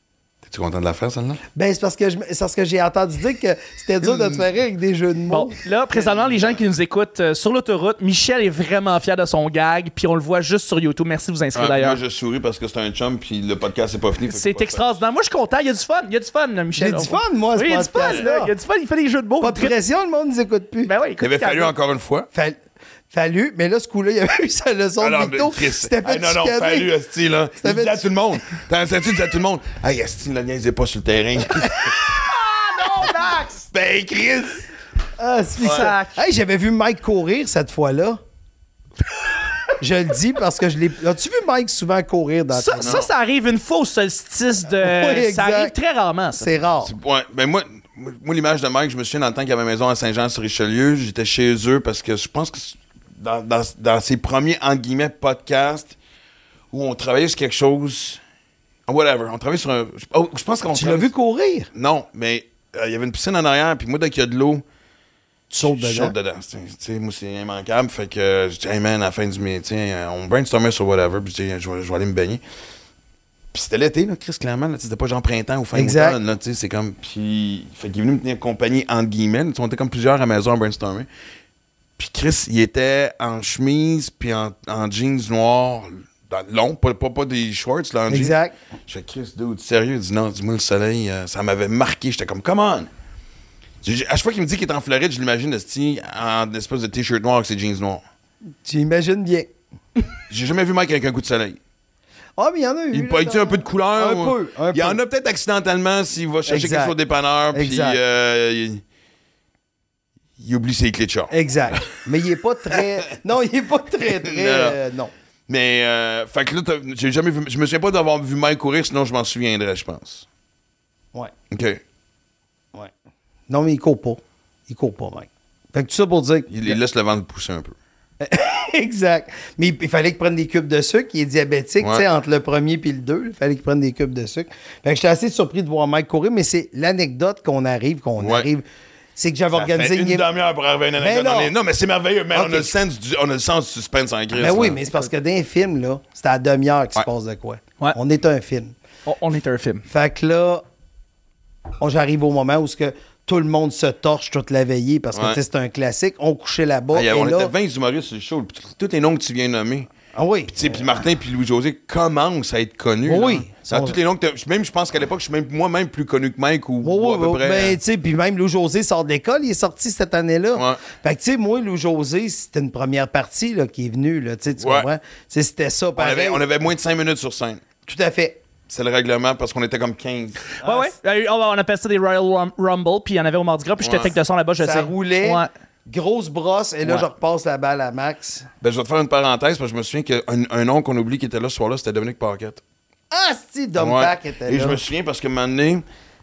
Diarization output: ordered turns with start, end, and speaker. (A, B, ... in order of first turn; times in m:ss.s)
0:00.4-0:01.4 A
0:01.6-0:05.6 B
0:04.0-0:04.4 A
0:05.3-0:12.0 C
0:11.6-0:15.0 A
0:14.3-0:19.7 C
0:16.8-0:18.5 B
0:19.4-0:20.9 B
0:20.9-0:21.7 C
0:21.2-0:22.3 A
0:22.3-0:22.6 B
0:23.1-0:26.9 B
0:25.0-0:32.1 A
0:27.6-0:28.1 B
0:32.5-0:33.6 C
0:33.7-0:34.6 A
0:35.2-0:38.2 B
0:35.6-0:35.9 A
0:35.6-0:36.2 C
0:39.8-0:43.1 B
0:42.5-0:46.5 C
0:42.8-0:43.1 A
0:44.8-0:45.8 B
0:46.4-0:46.9 B
0:46.8-0:56.0 A
0:56.7-0:58.2 A
0:58.9-1:01.1 A
1:00.7-1:01.7 B
1:01.7-1:04.6 A
1:05.5-1:06.1 B
1:05.6-1:12.4 A
1:13.5-1:21.1 A
1:15.7-1:16.2 B
1:22.0-1:28.4 A
1:28.1-1:28.6 B
1:28.9-1:32.9 A
1:33.8-1:38.0 A
1:38.6-1:39.5 B
1:40.3-1:41.6 A
1:42.4-1:45.0 B
1:42.9-1:48.8 A
1:46.5-1:47.0 B
1:47.5-1:48.0 B
1:50.4-1:52.0 A
1:51.3-1:55.1 B
1:54.2-1:54.8 A
1:55.5-2:00.3 A
2:01.5-2:01.8 A
2:03.5-2:06.8 B
2:06.5-2:07.8 A
2:08.2-2:18.6 B
2:18.2-2:18.5 A
2:19.2-2:20.3 B
2:19.5-2:24.8 A
2:21.0-2:21.5 B
2:22.3-2:22.8 B
2:24.3-2:28.7 B
2:29.1-2:29.8 C
2:29.9-2:30.6 B
2:31.8-2:37.5 B
2:35.1-2:35.4 A
2:36.9-2:39.9 A
2:40.1-2:40.8 B
2:40.5-2:47.8 A
2:43.0-2:44.0 B
2:46.8-2:56.4 B
2:50.6-2:50.8 A
2:54.6-2:54.9 A
2:56.0-2:57.6 A
2:57.9-2:58.4 B
2:58.7-3:00.5 A
3:00.6-3:01.0 B
3:00.6-3:05.5 C
3:03.8-3:04.1 A
3:04.6-3:08.5 B
3:08.6-3:12.6 A
3:13.1-3:14.8 B
3:13.8-3:15.8 A